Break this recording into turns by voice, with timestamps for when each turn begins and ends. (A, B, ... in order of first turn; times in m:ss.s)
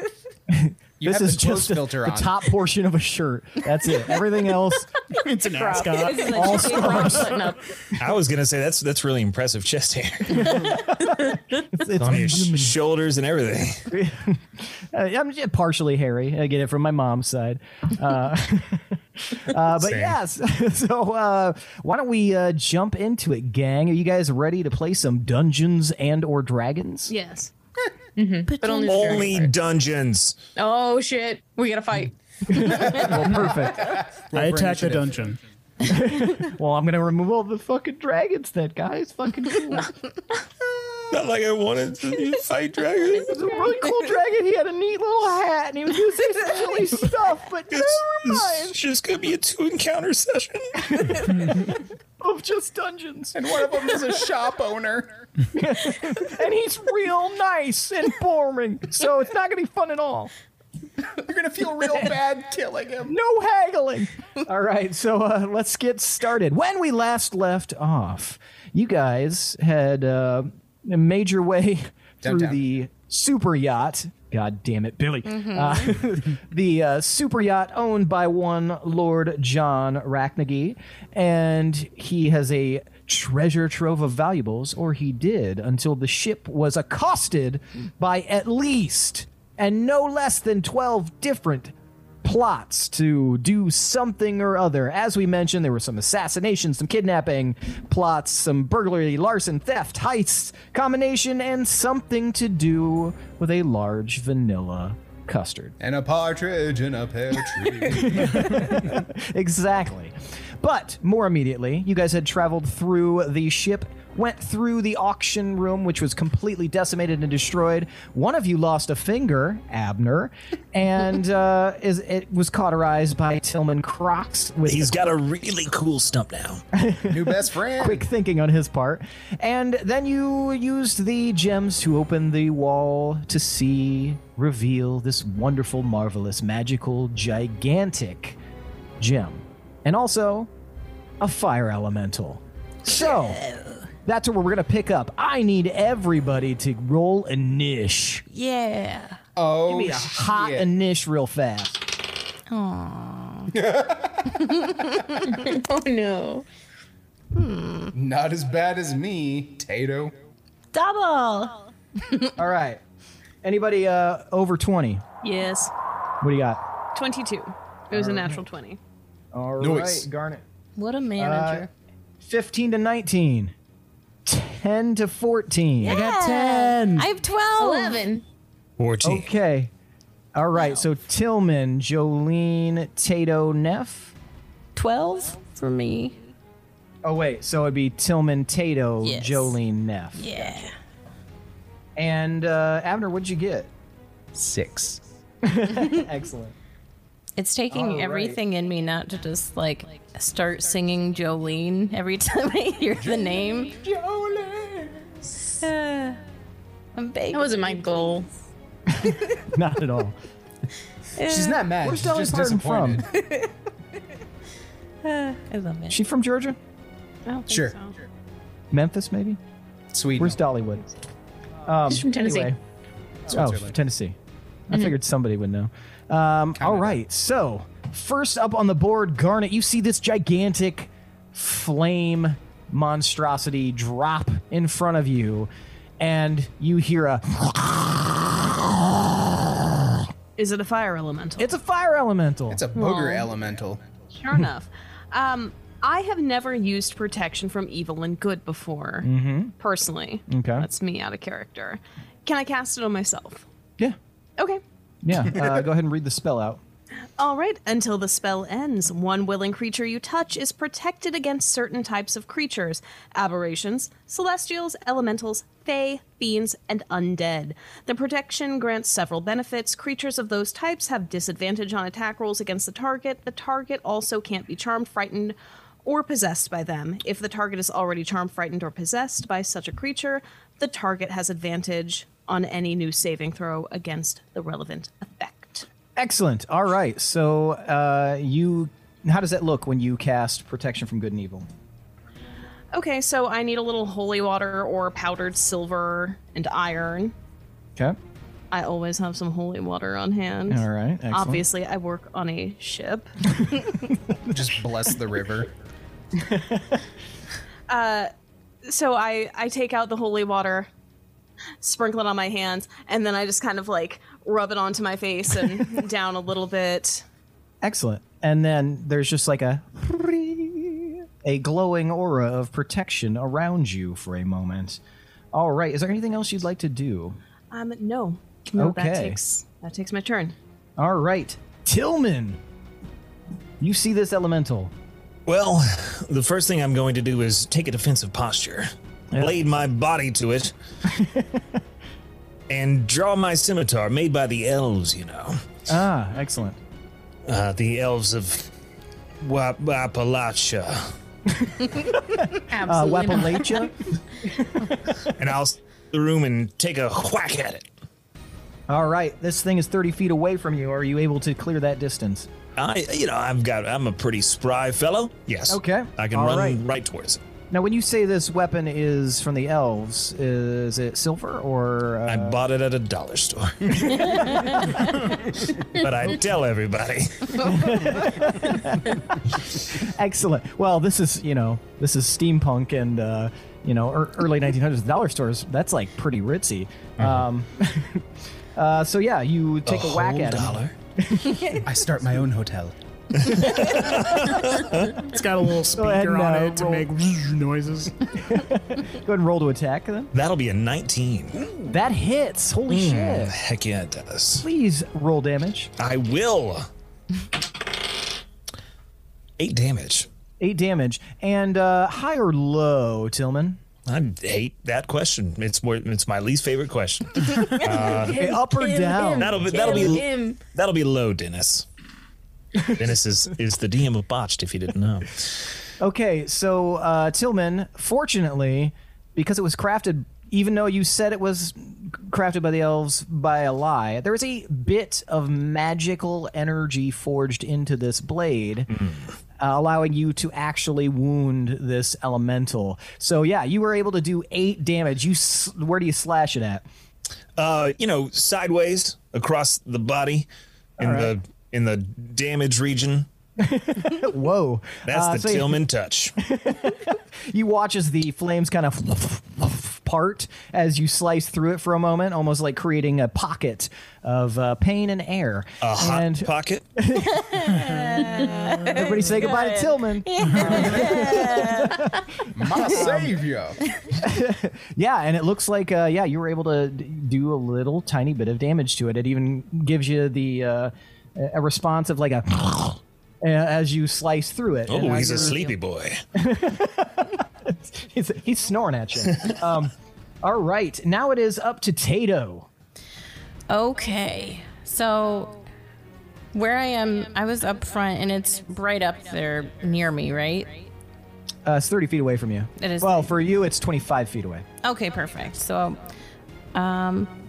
0:00.5-0:04.9 A
0:01.0-0:02.4 B
0:05.2-0:07.2 C
0:05.5-0:07.6 D
0:06.1-0:07.1 E
0:06.2-0:07.3 A
0:08.0-0:10.7 F
0:10.5-0:12.8 A
0:12.0-0:13.8 F
0:13.9-0:27.1 A
0:19.7-0:20.2 F
0:27.1-0:27.5 G
0:28.2-0:29.5 D
0:28.5-0:29.3 E
0:28.9-0:30.4 F
0:30.6-0:33.2 D
0:32.5-0:33.9 A
0:33.4-0:35.3 B
0:34.3-0:35.4 C
0:35.8-0:39.9 A
0:41.1-0:43.4 F
0:43.1-0:48.8 A
0:47.7-0:51.0 F
0:50.8-0:53.9 A
0:53.3-0:55.1 B
0:55.5-1:00.3 A
1:01.1-1:03.1 B
1:03.0-1:45.8 A
1:12.2-1:12.6 B
1:15.2-1:15.9 E
1:45.8-1:48.8 B
1:47.5-2:05.0 A
2:04.6-2:06.6 F
2:06.7-2:18.4 A
2:07.1-2:08.0 B
2:19.0-2:20.5 A
2:21.2-2:23.4 A
2:22.9-2:23.8 E
2:24.0-2:28.2 A
2:28.3-2:29.2 E
2:29.4-2:30.7 B
2:29.6-2:31.9 A
2:32.5-2:33.6 E
2:33.5-2:34.4 B
2:34.3-2:35.4 E
2:35.2-2:36.4 D
2:37.3-2:37.9 E
2:37.9-2:40.1 B
2:40.7-2:42.3 E
2:42.4-2:42.8 A
2:43.4-2:45.0 A
2:45.2-2:45.7 G
2:46.2-2:46.6 A
2:46.9-2:48.8 G
2:47.9-2:48.4 A
2:49.3-2:50.4 A
2:49.6-2:50.0 B
2:50.8-2:51.7 E
2:51.2-2:51.7 A
2:52.2-2:53.5 A
2:54.2-2:57.1 A
2:55.8-2:58.0 E
2:57.6-2:58.2 D
2:58.8-2:59.3 F
2:59.0-2:59.7 A
3:00.3-3:04.1 A
3:04.8-3:06.2 E
3:07.0-3:10.6 A
3:09.0-3:09.5 E
3:10.2-3:10.7 E
3:12.0-3:13.7 A
3:14.3-3:15.0 B
3:15.4-3:16.5 A
3:17.4-3:23.8 E
3:17.7-3:18.4 A
3:23.0-3:25.1 B
3:25.6-3:26.2 E
3:27.0-3:28.2 E
3:27.3-3:28.2 D
3:28.9-3:30.2 A
3:31.2-3:31.7 E
3:31.2-3:33.0 B
3:31.8-3:33.0 A
3:33.1-3:33.5 E
3:35.0-3:36.0 E
3:35.9-3:36.6 A
3:37.2-3:37.9 G
3:37.5-3:37.8 B
3:38.7-3:39.4 A
3:39.9-3:40.4 B
3:40.2-3:40.8 A
3:41.6-3:42.6 A
3:41.9-3:42.5 D
3:43.3-3:43.8 B
3:43.3-3:44.2 A
3:44.7-4:00.0 A
3:46.6-3:47.0 B
4:00.4-4:01.5 G
4:01.4-4:02.6 A
4:02.5-4:03.8 B
4:02.7-4:03.3 G
4:04.1-4:09.1 G
4:09.0-4:09.5 A
4:09.6-4:13.4 G
4:10.3-4:10.7 A
4:14.4-4:14.6 G
4:15.0-4:16.6 A
4:17.2-4:45.7 G
4:46.0-4:51.5 A
4:52.7-4:57.1 G
4:58.5-5:03.1 G
5:00.5-5:01.4 A
5:03.3-5:04.4 A
5:04.3-5:05.5 B
5:06.1-5:06.8 A
5:07.7-5:08.1 G
5:08.6-5:10.7 G
5:11.6-5:17.0 G
5:17.6-5:24.8 A
5:25.3-5:27.2 A
5:27.5-5:30.4 G
5:28.6-5:29.2 A
5:30.8-5:32.4 A
5:33.6-5:34.7 A
5:35.3-5:40.5 F
5:39.1-5:39.4 A
5:40.8-5:41.4 A
5:42.5-5:45.4 F
5:45.7-5:46.6 A
5:47.2-5:48.5 F
5:49.2-5:50.9 F
5:51.5-5:55.1 A
5:52.4-5:53.7 D
5:55.2-5:57.6 F
5:58.7-6:02.3 A
6:02.6-6:07.2 F
6:05.5-6:06.6 A
6:07.5-6:12.4 A
6:12.1-6:14.6 F
6:13.8-6:14.6 A
6:15.7-6:17.7 F
6:17.4-6:31.7 A
6:27.0-6:27.2 F
6:29.6-6:30.7 F
6:31.6-6:32.7 B
6:33.2-6:35.0 F
6:33.4-6:34.0 A
6:35.0-6:37.9 C
6:35.7-6:36.9 A
6:38.2-6:40.1 A
6:40.1-6:41.5 F
6:41.7-6:43.4 A
6:42.7-6:44.5 F
6:44.4-6:45.7 A
6:45.8-6:46.7 F
6:49.4-6:50.1 F
6:50.4-6:53.6 A
6:53.8-6:58.2 F
6:57.6-7:00.4 D
6:58.0-7:00.0 A
6:59.2-7:01.6 F
7:02.6-7:05.6 F
7:05.8-7:18.7 A
7:18.8-7:19.0 F
7:19.4-7:26.6 A
7:27.4-7:30.3 F
7:30.8-7:31.1 A
7:30.8-7:33.1 F
7:33.4-7:35.6 A
7:34.8-7:36.2 F
7:36.2-7:47.3 A
7:45.6-7:46.6 F
7:47.0-7:51.9 E
7:48.6-7:52.0 A
7:52.3-7:53.6 B
7:52.6-7:53.1 A
7:53.9-8:05.5 A
8:04.7-8:06.0 F
8:06.1-8:12.5 A
8:13.5-8:15.4 E
8:16.3-8:20.7 E
8:21.4-8:24.4 A
8:22.6-8:23.2 E
8:24.6-8:25.8 E
8:26.5-8:27.1 E